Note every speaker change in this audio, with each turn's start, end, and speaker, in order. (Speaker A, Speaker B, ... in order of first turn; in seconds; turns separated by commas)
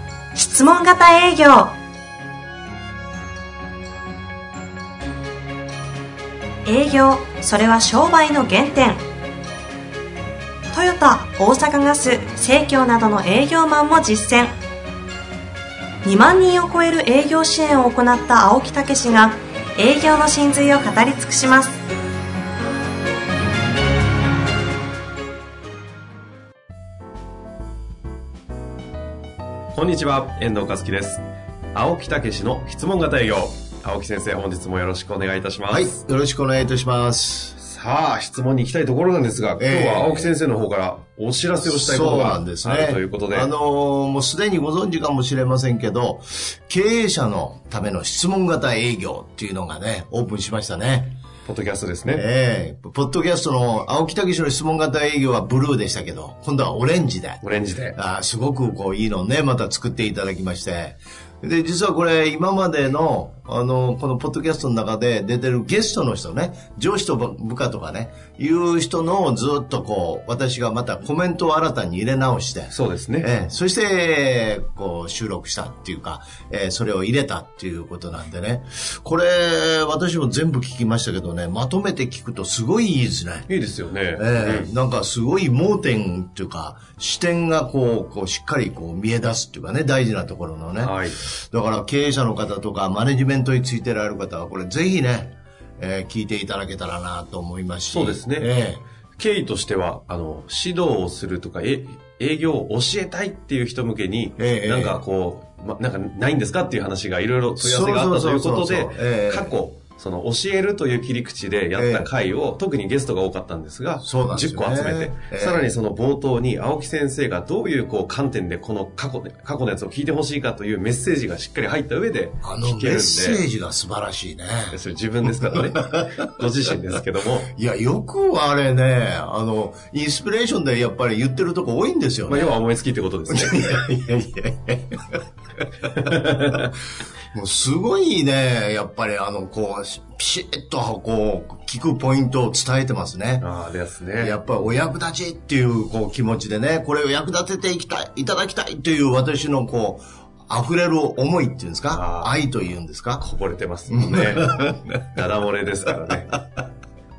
Speaker A: 0.3-1.7, Speaker A: 6.7-9.0, Speaker A: 10.7-14.5, Speaker A: 16.0-21.8, Speaker B: 29.7-36.0, Speaker C: 35.7-37.6, Speaker B: 37.6-43.5, Speaker C: 39.6-40.3, Speaker C: 41.6-51.2, Speaker B: 51.4-52.2, Speaker C: 52.0-57.4, Speaker B: 57.4-58.0, Speaker C: 57.9-83.5, Speaker B: 72.7-73.3, Speaker B: 83.5-84.7, Speaker C: 84.1-98.8, Speaker B: 90.8-91.2, Speaker B: 97.9-98.5, Speaker B: 99.2-123.3, Speaker C: 104.4-105.0, Speaker C: 107.6-109.6, Speaker C: 111.7-112.1, Speaker C: 114.0-115.7, Speaker C: 122.4-126.2, Speaker B: 124.7-127.5, Speaker C: 127.5-132.6, Speaker B: 132.3-133.8, Speaker C: 133.3-135.1, Speaker B: 135.9-136.7, Speaker C: 136.2-136.7, Speaker C: 137.3-143.5, Speaker B: 143.4-144.4, Speaker C: 144.2-153.2, Speaker B: 151.9-152.3, Speaker B: 153.2-156.4, Speaker C: 153.9-154.9